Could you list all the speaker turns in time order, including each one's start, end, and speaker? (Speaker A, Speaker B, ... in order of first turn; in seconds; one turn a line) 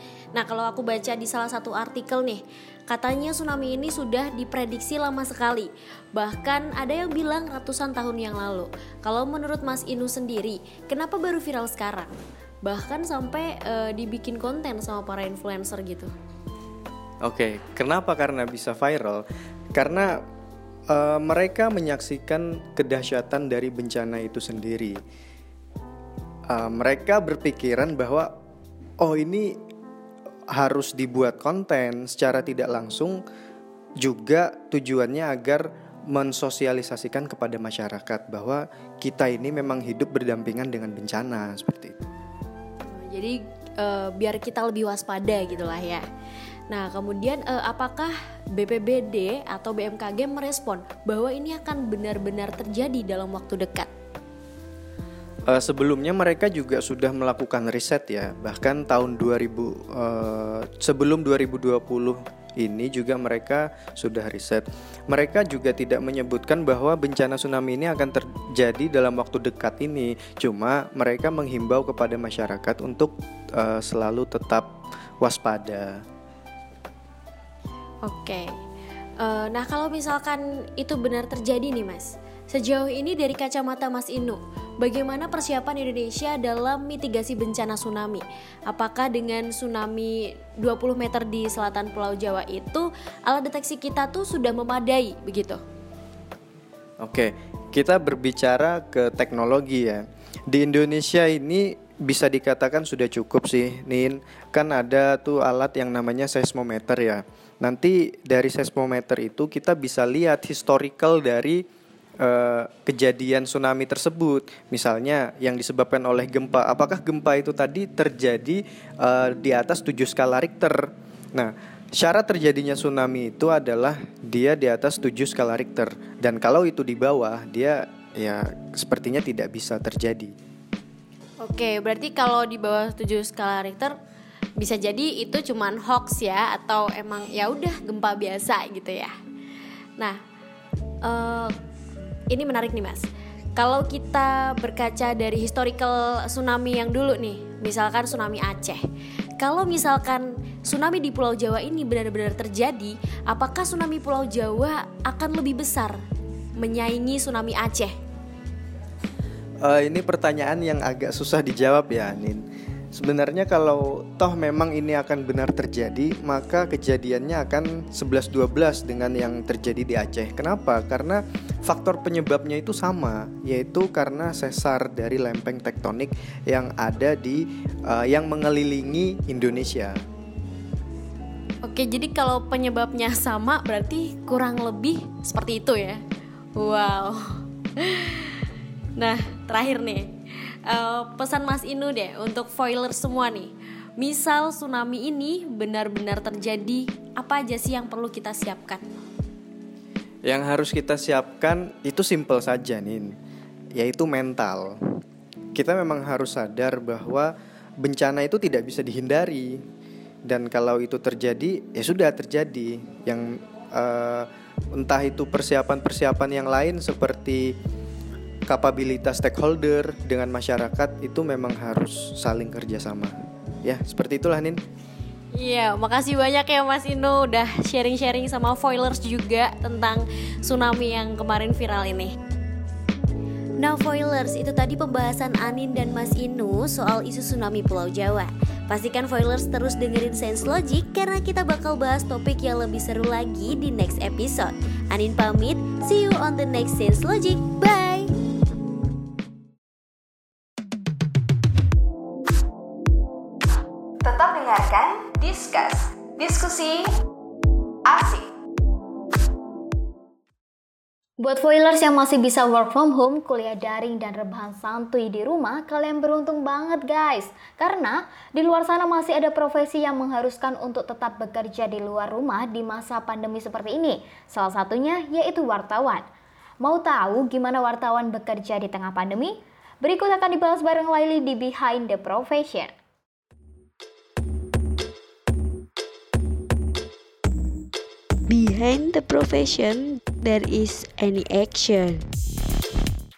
Speaker A: 0.3-16.1
Speaker B: 17.2-19.2
Speaker B: 19.7-20.2
Speaker B: 20.9-25.0
Speaker B: 26.5-28.3
Speaker B: 29.0-29.5
Speaker B: 30.5-33.2
Speaker B: 34.0-42.0
Speaker A: 42.9-46.0
Speaker A: 46.7-53.9
Speaker B: 55.5-76.0
Speaker A: 78.0-78.6
Speaker A: 79.2-95.6
Speaker B: 97.0-111.6
Speaker B: 112.2-130.3
Speaker A: 131.4-134.0
Speaker A: 134.6-139.1
Speaker A: 141.0-141.5
Speaker A: 142.3-148.8
Speaker A: 149.4-156.0
Speaker A: 156.6-157.9
Speaker B: 159.6-180.0
Speaker A: 181.6-186.0
Speaker A: 186.5-188.3
Speaker A: 188.9-190.1
Speaker A: 190.7-198.8
Speaker B: 200.2-203.1
Speaker B: 203.7-204.8
Speaker B: 205.5-207.3
Speaker B: 207.8-209.6
Speaker B: 210.3-217.5
Speaker B: 218.5-224.6
Speaker A: 225.3-232.1
Speaker A: 233.6-248.1
Speaker C: 254.0-256.9
Speaker C: 257.9-258.3
Speaker D: 261.2-276.1
Speaker D: 276.6-282.7
Speaker E: 288.3-292.0